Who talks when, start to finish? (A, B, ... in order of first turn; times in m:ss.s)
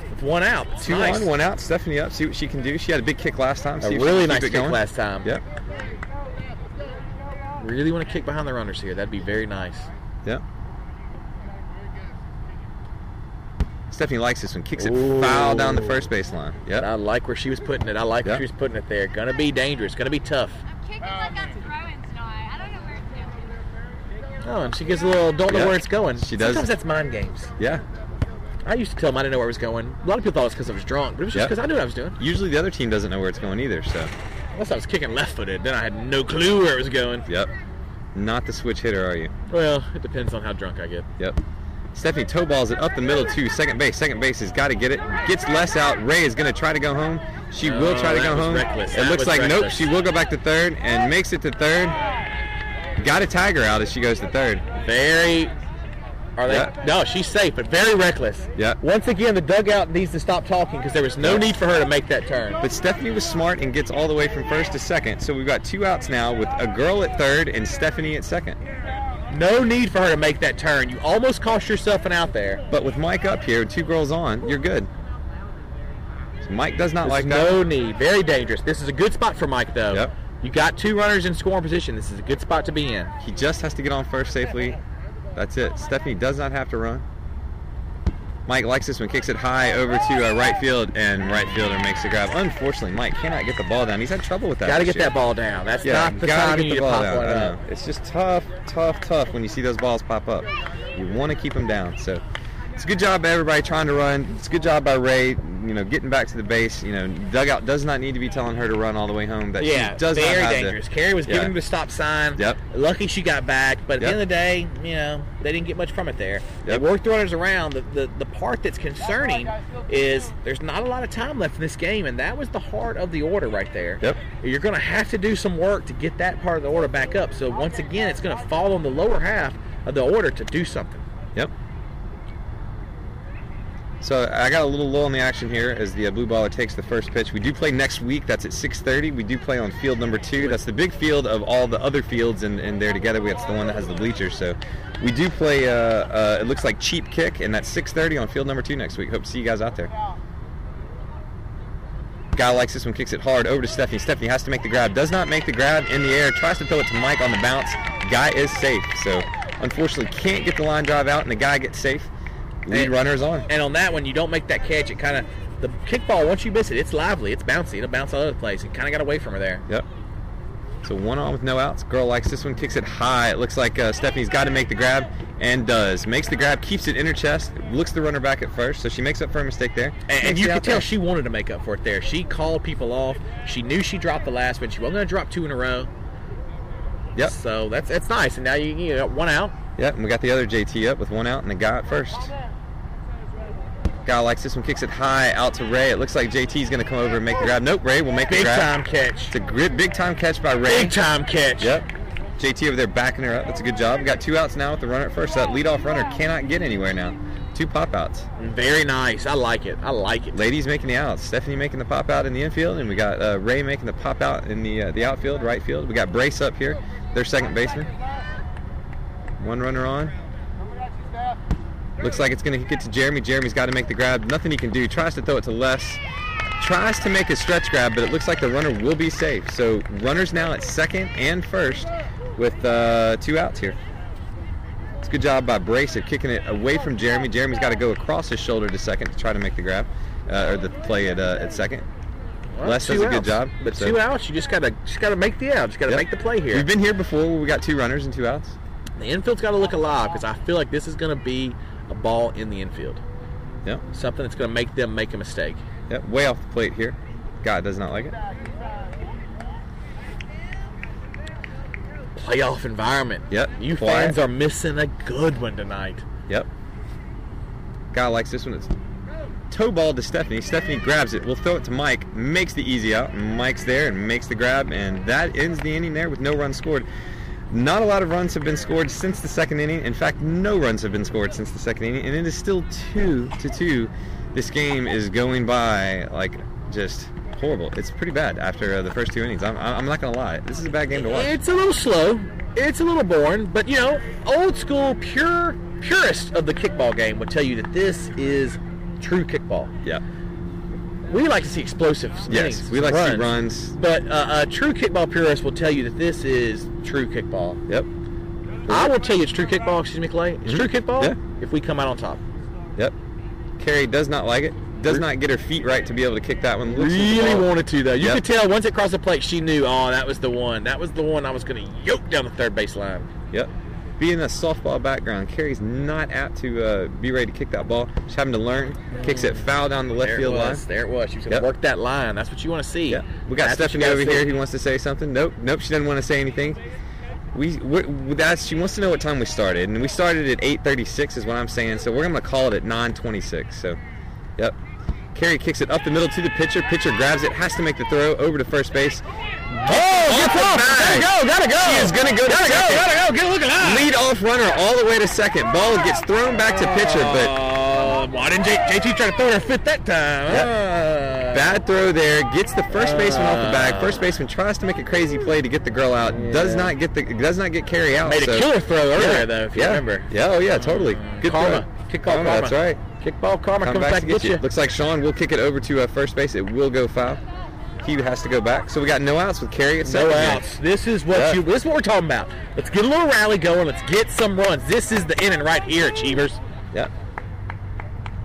0:00.1-0:01.3 A
0:00.8-0:05.4 B
0:03.8-0:05.3 A
0:07.6-0:09.9 A
0:13.9-0:16.9 B
0:14.8-0:16.0 A
0:16.8-0:20.6 A
0:20.8-0:23.6 C
0:24.4-0:27.5 A
0:25.5-0:26.7 B
0:27.6-0:27.8 B
0:28.6-0:32.2 A
0:32.2-0:34.1 B
0:34.5-0:37.3 A
0:38.1-0:39.3 B
0:39.5-0:41.1 A
0:41.9-0:52.0 B
0:47.6-0:49.9 A
0:53.0-0:54.6 B
0:54.8-0:55.5 A
0:56.4-1:02.6 A
0:56.5-0:56.7 B
1:01.2-1:01.5 B
1:02.6-1:08.6 B
1:09.3-1:12.6 A
1:12.7-1:14.9 B
1:16.4-1:17.6 B
1:17.0-1:23.1 A
1:23.2-1:24.8 B
1:25.4-1:27.0 B
1:28.5-1:35.1 B
1:34.6-1:37.6 A
1:35.8-1:42.2 B
1:42.8-1:51.5 B
1:49.6-2:11.0 A
2:14.0-2:29.9 B
2:32.4-2:42.1 B
2:42.7-2:43.5 B
2:43.5-2:49.6 A
2:50.8-3:00.9 B
3:00.1-3:05.9 A
3:07.2-3:09.6 A
3:09.8-3:12.3 B
3:14.0-3:18.7 B
3:18.3-3:19.3 A
3:19.3-3:21.0 B
3:20.6-3:21.8 A
3:21.6-3:21.9 B
3:22.4-3:28.3 B
3:28.4-3:30.4 A
3:30.3-3:37.9 B
3:39.4-3:40.1 B
3:42.0-3:46.0 B
3:46.6-3:53.8 B
3:55.0-4:01.8 B
4:02.5-4:06.7 A
4:02.6-4:04.0 B
4:05.9-4:08.6 B
4:09.0-4:13.0 A
4:13.9-4:15.6 A
4:15.9-4:18.2 B
4:22.2-4:26.0 A
4:23.3-4:24.2 B
4:27.9-4:28.7 B
4:29.5-4:36.9 B
4:37.5-4:51.3 B
4:51.0-4:59.7 A
5:01.1-5:07.6 A
5:02.3-5:03.7 B
5:08.7-5:08.9 B
5:08.7-5:12.2 A
5:10.4-5:11.2 B
5:13.6-5:18.2 B
5:16.7-5:23.1 A
5:23.3-5:30.6 B
5:28.9-5:34.3 A
5:32.9-5:36.6 B
5:37.3-5:43.8 B
5:45.1-5:52.9 B
5:49.6-5:53.9 A
5:53.6-5:57.4 B
5:56.5-6:01.4 A
6:01.3-6:12.8 B
6:02.7-6:04.0 A
6:06.1-6:06.7 A
6:08.1-6:14.4 A
6:13.6-6:17.2 B
6:17.8-6:20.4 B
6:19.8-6:26.4 A
6:21.1-6:21.4 B